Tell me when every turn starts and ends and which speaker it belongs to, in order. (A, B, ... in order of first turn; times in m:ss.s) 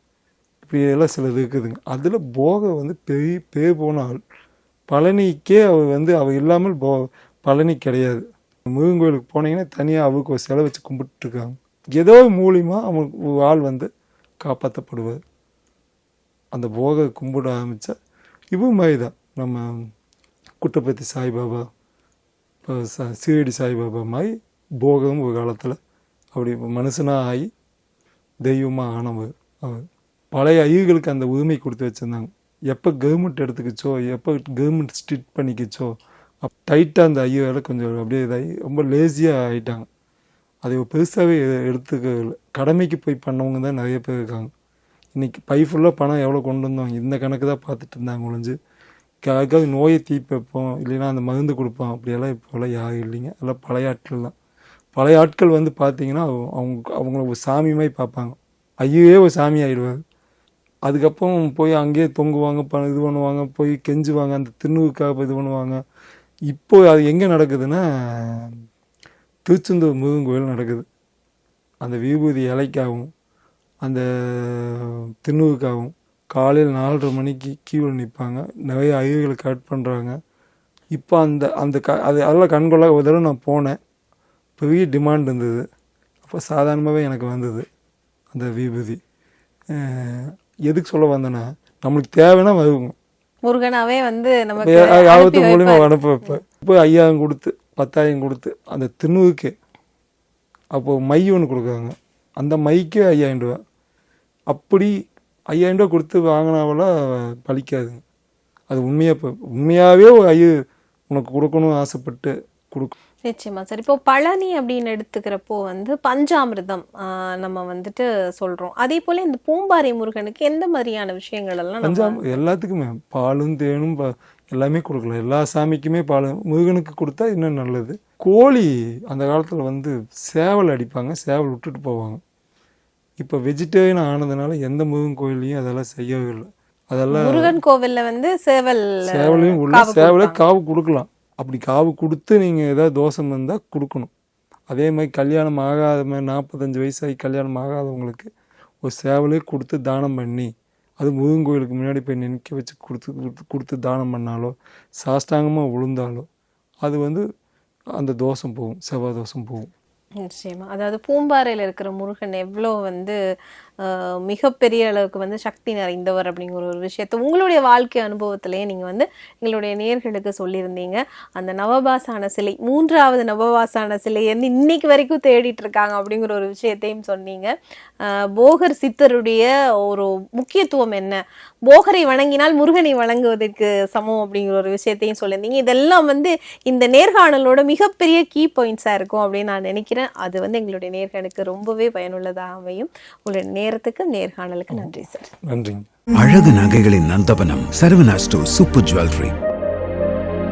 0:00.6-0:04.2 A
0:04.9-0:13.9 A
0:14.4-0:15.2 A
0:16.5-0:17.9 A
0:18.5-0:19.9 A
0:20.6-0:21.6 A
0:22.6-0:25.8 A
0:26.3-0:27.5 A
0:28.4-0:35.9 A
0:36.4-0:39.8 A
0:40.6-0:44.5 A
0:45.1-0:48.6 A
0:49.2-0:54.3 A
0:55.0-1:00.0 A
1:00.8-1:05.8 A
1:06.5-1:08.6 A
1:09.4-1:10.8 A
1:11.8-1:13.1 A
1:13.8-1:20.2 A
1:20.9-1:23.8 A
1:24.6-1:25.6 A
1:26.2-1:27.6 A
1:28.3-1:29.0 A
1:29.7-1:32.9 A
1:33.4-1:35.9 B
1:34.6-1:39.5 A
1:40.7-1:43.6 A
1:44.5-1:44.9 A
1:45.5-1:48.0 A
1:48.7-1:50.5 A
1:51.1-1:52.9 A
1:53.2-2:02.4 B
2:01.8-2:12.2 A
2:13.2-2:17.6 A
2:17.1-2:20.4 B
2:19.0-2:24.1 A
2:24.7-2:28.3 A
2:28.8-2:30.5 A
2:31.0-2:36.2 A
2:36.8-2:37.2 A
2:38.0-2:39.7 A
2:40.2-2:43.2 B
2:43.8-3:15.3 B
3:15.4-3:15.9 A
3:16.1-3:19.3 C
3:16.8-3:19.3 B